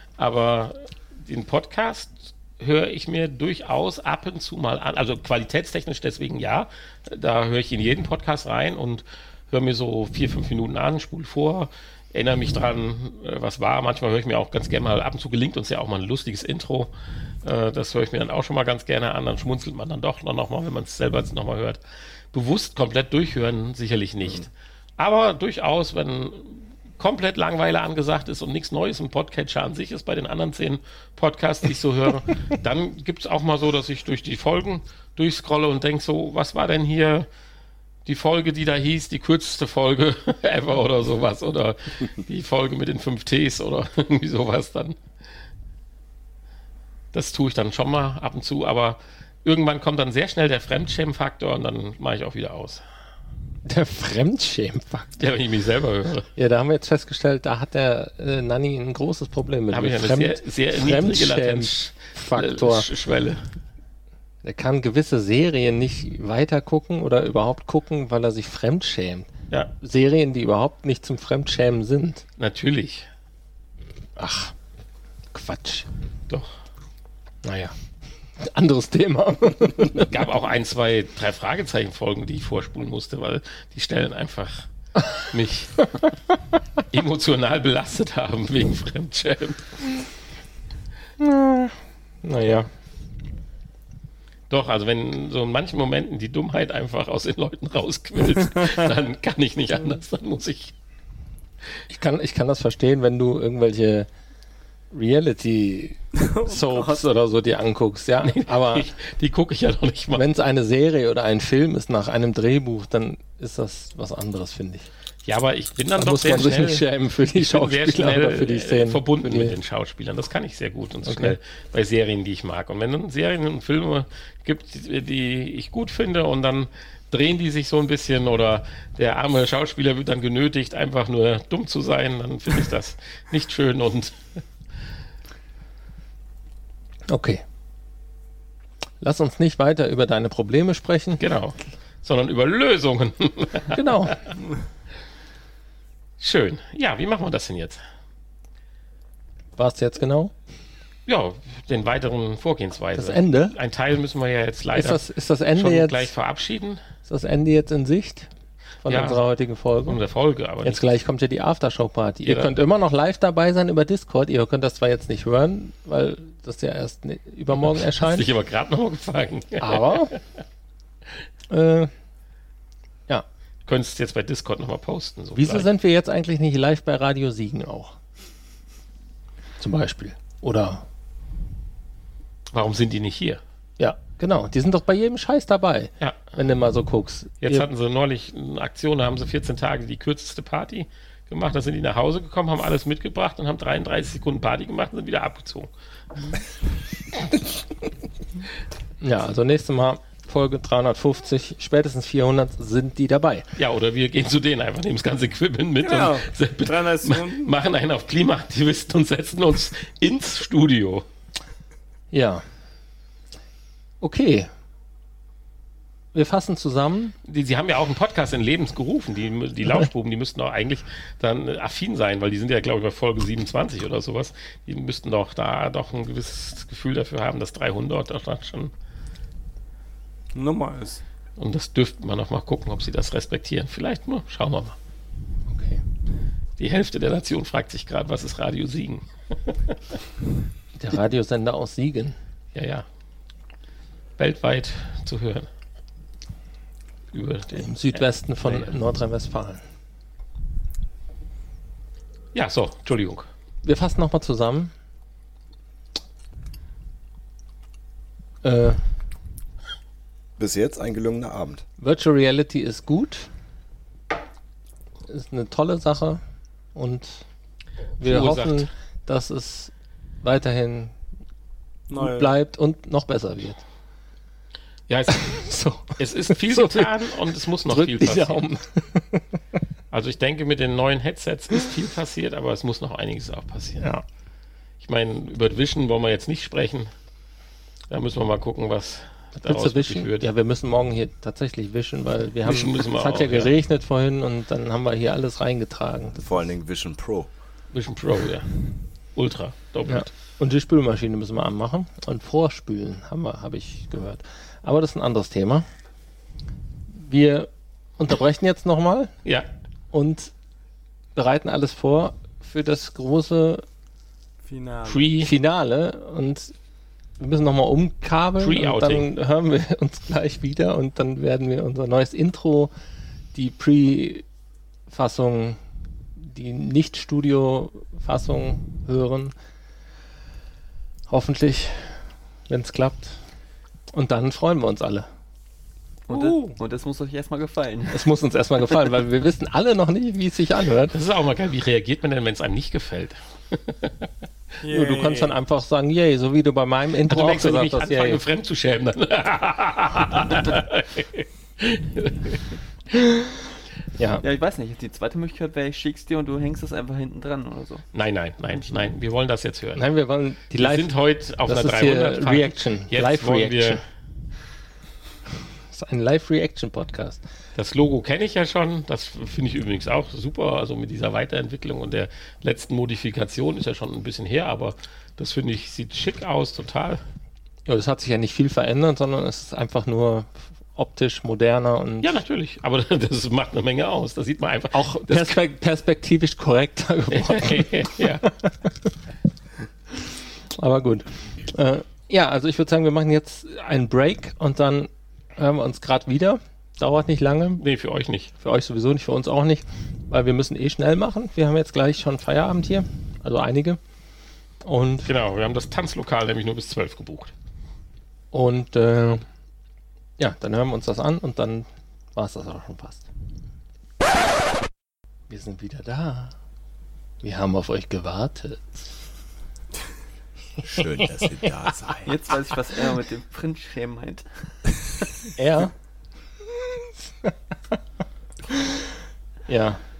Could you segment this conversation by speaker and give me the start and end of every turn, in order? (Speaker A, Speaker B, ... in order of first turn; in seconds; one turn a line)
Speaker A: 0.2-16.9
Speaker A: 17.4-21.8
Speaker A: 22.3-37.3
Speaker A: 38.0-45.0
Speaker A: 47.1-52.8
Speaker B: 53.6-55.2
Speaker A: 55.2-56.3
Speaker B: 56.4-62.9
Speaker A: 59.7-63.4
Speaker B: 64.4-72.2
Speaker A: 72.4-73.1
Speaker B: 74.2-74.5
Speaker B: 75.3-75.9
Speaker B: 77.4-77.7
Speaker B: 78.4-80.1
Speaker A: 79.9-86.0
Speaker A: 86.9-89.9
Speaker B: 91.2-92.7
Speaker A: 94.5-100.7
Speaker B: 101.9-104.1
Speaker B: 104.9-108.9
Speaker C: 106.2-107.0
Speaker A: 108.2-110.2
Speaker B: 110.1-114.9
Speaker A: 115.2-134.4
Speaker B: 116.0-119.5
Speaker B: 121.0-121.3
Speaker B: 137.1-137.4
Speaker B: 139.0-141.2
Speaker A: 141.2-144.1
Speaker B: 143.7-144.2
Speaker A: 146.2-147.8
Speaker B: 149.6-150.3
Speaker A: 151.1-156.8
Speaker B: 152.9-153.6
Speaker B: 154.7-156.1
Speaker B: 157.1-158.3
Speaker B: 158.8-160.0
Speaker A: 158.8-159.2
Speaker A: 159.8-160.9
Speaker B: 160.6-168.3
Speaker A: 162.2-162.5
Speaker A: 167.6-170.2
Speaker B: 169.6-170.1
Speaker B: 171.5-171.9
Speaker A: 173.7-175.7
Speaker B: 175.3-177.9
Speaker B: 179.6-180.8
Speaker A: 182.5-183.4
Speaker B: 183.8-187.7
Speaker A: 187.4-195.7
Speaker B: 199.0-203.5
Speaker A: 203.6-211.1
Speaker C: 205.8-207.5
Speaker B: 212.1-212.4
Speaker B: 214.0-214.5
Speaker B: 216.1-217.1
Speaker A: 217.2-228.7
Speaker C: 230.3-231.0
Speaker A: 231.4-234.8
Speaker B: 235.5-235.8
Speaker A: 236.6-239.8
Speaker B: 240.8-242.2
Speaker A: 242.5-242.8
Speaker A: 244.2-245.5
Speaker A: 247.1-248.7
Speaker B: 247.5-249.6
Speaker A: 252.3-253.3
Speaker B: 253.6-254.7
Speaker B: 258.4-258.8
Speaker D: 260.4-261.6
Speaker B: 261.8-263.3
Speaker B: 265.1-266.2
Speaker B: 266.7-267.2
Speaker A: 268.0-268.7
Speaker B: 268.0-269.7
Speaker B: 270.2-270.9
Speaker C: 271.9-272.3
Speaker B: 271.9-273.6
Speaker A: 274.9-278.4
Speaker B: 275.1-276.9
Speaker B: 277.6-279.2
Speaker A: 279.9-283.9
Speaker A: 284.8-286.9
Speaker A: 287.9-290.3
Speaker B: 289.4-296.4
Speaker A: 292.4-293.5
Speaker D: 296.2-297.3
Speaker A: 297.7-298.6
Speaker A: 299.1-300.1
Speaker B: 299.9-305.7
Speaker B: 306.9-309.1
Speaker B: 309.9-310.3
Speaker B: 311.1-313.6
Speaker C: 314.4-315.1
Speaker A: 314.9-315.3
Speaker B: 315.2-316.5
Speaker B: 317.2-322.7
Speaker A: 318.4-319.1
Speaker B: 323.3-324.2
Speaker B: 324.9-325.6
Speaker B: 326.2-329.3
Speaker B: 331.1-333.2
Speaker B: 333.9-335.1
Speaker E: 336.1-338.0
Speaker B: 336.1-336.6
Speaker B: 337.9-340.9
Speaker A: 340.9-344.1
Speaker C: 344.6-345.3
Speaker B: 344.7-348.2
Speaker A: 347.1-352.6
Speaker B: 352.9-353.3
Speaker B: 354.0-354.2
Speaker E: 354.2-357.8
Speaker A: 357.9-359.8
Speaker B: 359.7-360.9
Speaker A: 360.6-363.8
Speaker B: 361.4-363.8
Speaker B: 365.7-367.2
Speaker A: 367.6-377.0
Speaker B: 377.6-382.1
Speaker A: 382.0-385.3
Speaker B: 384.7-388.0
Speaker A: 387.1-388.3
Speaker B: 390.5-397.6
Speaker A: 397.6-398.3
Speaker B: 398.4-403.8
Speaker B: 404.6-405.1
Speaker A: 405.1-407.3
Speaker B: 408.3-409.2
Speaker B: 410.2-413.1
Speaker B: 415.3-416.3
Speaker B: 417.2-418.8
Speaker D: 420.6-422.1
Speaker E: 422.0-424.3
Speaker B: 425.4-425.7
Speaker B: 427.2-427.8
Speaker B: 428.5-428.8
Speaker B: 429.5-429.8